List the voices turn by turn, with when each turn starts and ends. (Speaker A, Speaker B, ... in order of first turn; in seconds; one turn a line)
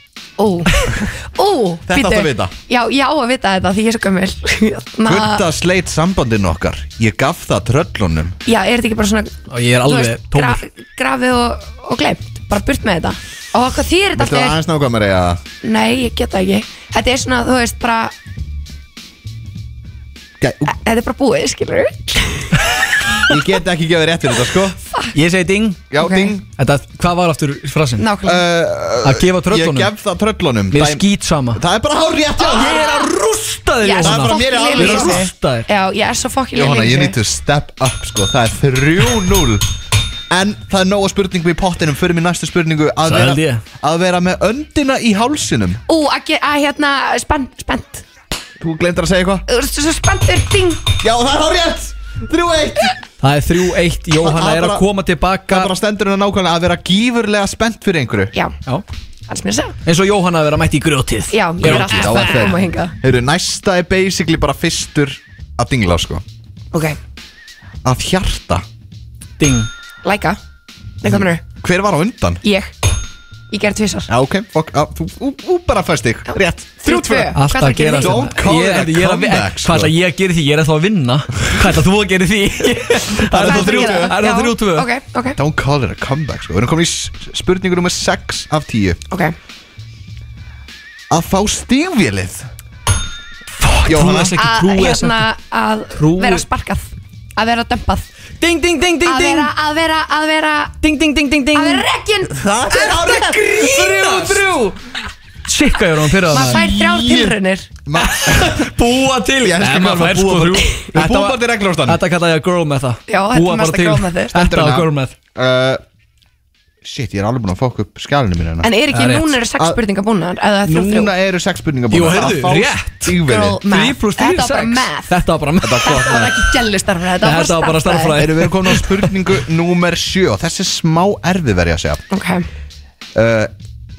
Speaker A: 0.4-5.4
Speaker B: 1.9-2.5
Speaker B: 5.0-8.4
Speaker A: 8.4-14.6
Speaker C: 9.5-10.6
Speaker B: 14.2-15.4
Speaker A: 15.6-18.1
Speaker B: 20.4-20.7
Speaker A: 20.6-22.6
Speaker B: 23.3-24.8
Speaker C: 25.1-25.8
Speaker B: 25.9-26.4
Speaker A: 26.0-26.3
Speaker C: 26.6-28.1
Speaker A: 28.0-28.4
Speaker B: 28.2-32.9
Speaker C: 29.0-29.9
Speaker C: 30.7-31.6
Speaker C: 32.4-35.7
Speaker A: 32.5-33.0
Speaker A: 33.8-37.1
Speaker B: 34.0-35.3
Speaker B: 36.5-39.6
Speaker B: 40.3-45.8
Speaker C: 43.0-43.6
Speaker A: 45.9-48.0
Speaker B: 48.6-49.5
Speaker A: 49.5-50.9
Speaker B: 51.0-53.0
Speaker C: 53.2-55.7
Speaker B: 54.1-54.9
Speaker B: 55.5-58.4
Speaker A: 59.3-59.7
Speaker C: 59.8-62.6
Speaker A: 61.3-62.9
Speaker B: 61.6-66.2
Speaker A: 66.7-67.0
Speaker B: 67.8-68.6
Speaker C: 69.4-69.7
Speaker A: 70.0-70.4
Speaker A: 71.0-71.4
Speaker B: 71.0-72.4
Speaker A: 72.4-72.7
Speaker A: 73.5-74.1
Speaker B: 74.1-79.9
Speaker A: 76.3-78.3
Speaker C: 77.3-84.9
Speaker B: 83.2-84.2
Speaker A: 83.3-85.4
Speaker B: 85.4-89.0
Speaker B: 91.1-92.5
Speaker C: 93.6-95.2
Speaker B: 93.8-94.4
Speaker A: 94.3-98.1
Speaker C: 95.9-96.4
Speaker C: 98.4-99.5
Speaker A: 99.0-100.7
Speaker C: 100.8-101.9
Speaker A: 101.5-103.2
Speaker B: 102.2-104.7
Speaker C: 102.7-104.7
Speaker C: 105.5-106.7
Speaker A: 106.3-107.7
Speaker B: 106.3-108.7
Speaker C: 108.0-115.1
Speaker B: 109.4-112.0
Speaker A: 113.1-114.3
Speaker B: 114.3-115.8
Speaker B: 116.8-118.7
Speaker A: 118.6-121.1
Speaker C: 118.9-119.3
Speaker B: 120.7-123.6
Speaker C: 121.9-126.3
Speaker A: 123.2-125.2
Speaker B: 125.6-126.4
Speaker A: 125.8-128.2
Speaker C: 127.2-129.1
Speaker B: 128.2-132.0
Speaker A: 132.1-132.4
Speaker B: 133.1-133.5